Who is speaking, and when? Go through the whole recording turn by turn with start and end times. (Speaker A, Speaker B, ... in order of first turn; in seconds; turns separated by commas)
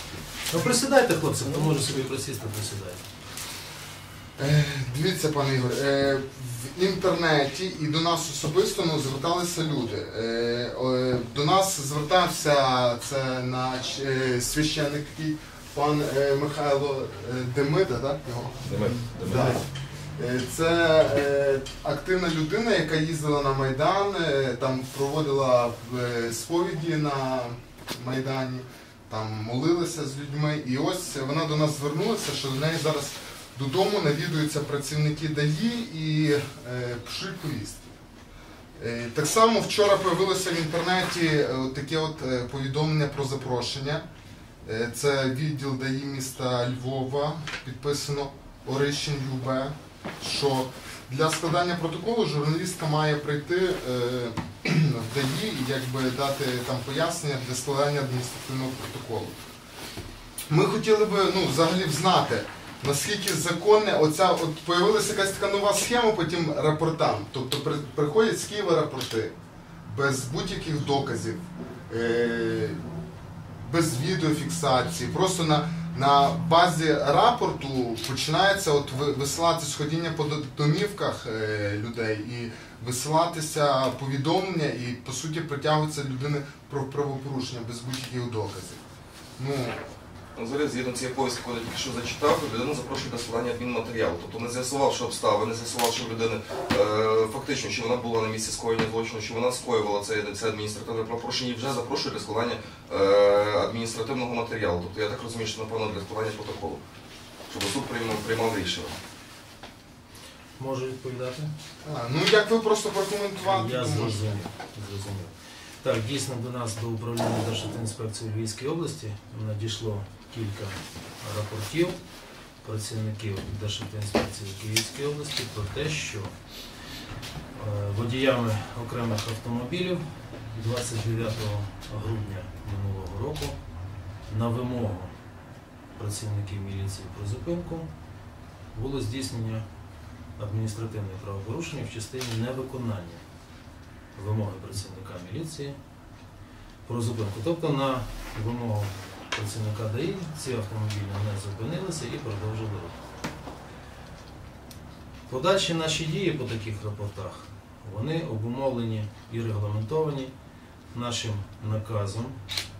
Speaker A: 0.5-3.0, Speaker B: 4.4-19.6, Speaker C: 18.7-19.6, Speaker B: 20.2-37.9, Speaker B: 38.8-44.0, Speaker B: 44.6-59.4, Speaker B: 60.5-69.3, Speaker B: 69.9-72.8, Speaker B: 73.6-88.8, Speaker B: 89.4-89.8, Speaker C: 90.3-106.8, Speaker C: 107.5-109.0, Speaker A: 110.6-111.5, Speaker B: 111.8-114.2, Speaker A: 113.4-122.0, Speaker A: 122.6-126.3, Speaker A: 127.5-133.6, Speaker A: 134.3-135.1, Speaker A: 135.9-137.9, Speaker A: 138.7-139.6, Speaker A: 140.4-143.2, Speaker A: 144.2-145.8, Speaker A: 146.8-153.0, Speaker A: 155.3-160.3, Speaker A: 160.9-162.4